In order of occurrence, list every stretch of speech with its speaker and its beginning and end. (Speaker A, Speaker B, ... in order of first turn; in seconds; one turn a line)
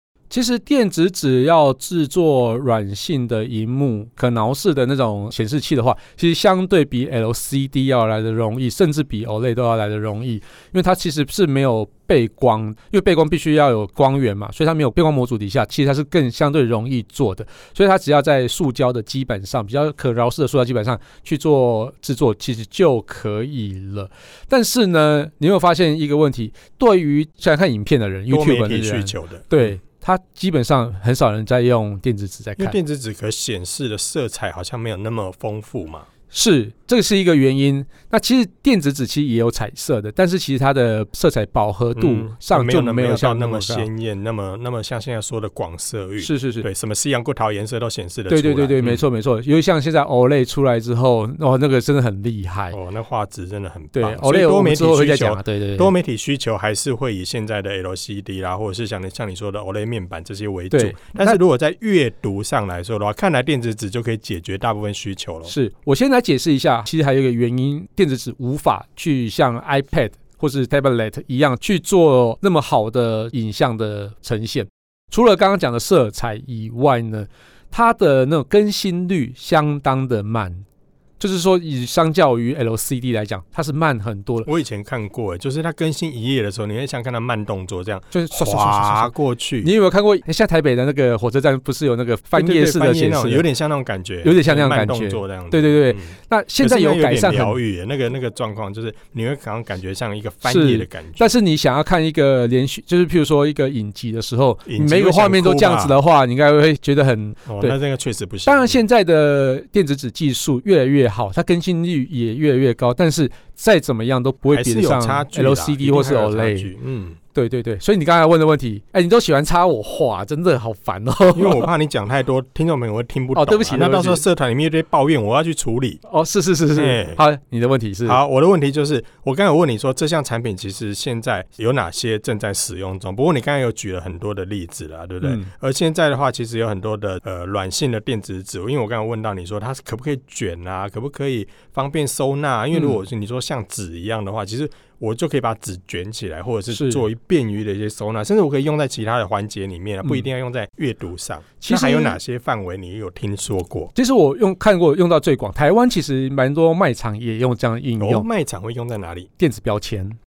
Speaker A: 0.3-32.8
Speaker B: 28.3-29.7
Speaker B: 32.6-36.1
Speaker A: 36.3-43.9
Speaker B: 42.0-49.0
Speaker A: 46.2-46.7
Speaker A: 48.3-52.8
Speaker B: 52.7-65.5
Speaker A: 54.0-55.9
Speaker A: 60.7-61.4
Speaker A: 65.5-80.7
Speaker A: 81.2-84.5
Speaker B: 84.5-89.7
Speaker A: 88.1-93.5
Speaker B: 92.3-101.3
Speaker A: 94.2-97.6
Speaker A: 100.5-107.8
Speaker B: 104.7-106.0
Speaker B: 107.5-108.8
Speaker A: 108.5-116.7
Speaker B: 114.5-117.2
Speaker A: 117.3-121.7
Speaker B: 121.3-126.0
Speaker A: 123.3-124.2
Speaker A: 126.1-128.2
Speaker B: 126.8-127.2
Speaker B: 128.1-153.9
Speaker A: 135.2-135.5
Speaker A: 146.7-147.1
Speaker A: 151.6-152.2
Speaker A: 153.9-158.3
Speaker B: 158.0-159.3
Speaker A: 159.4-160.2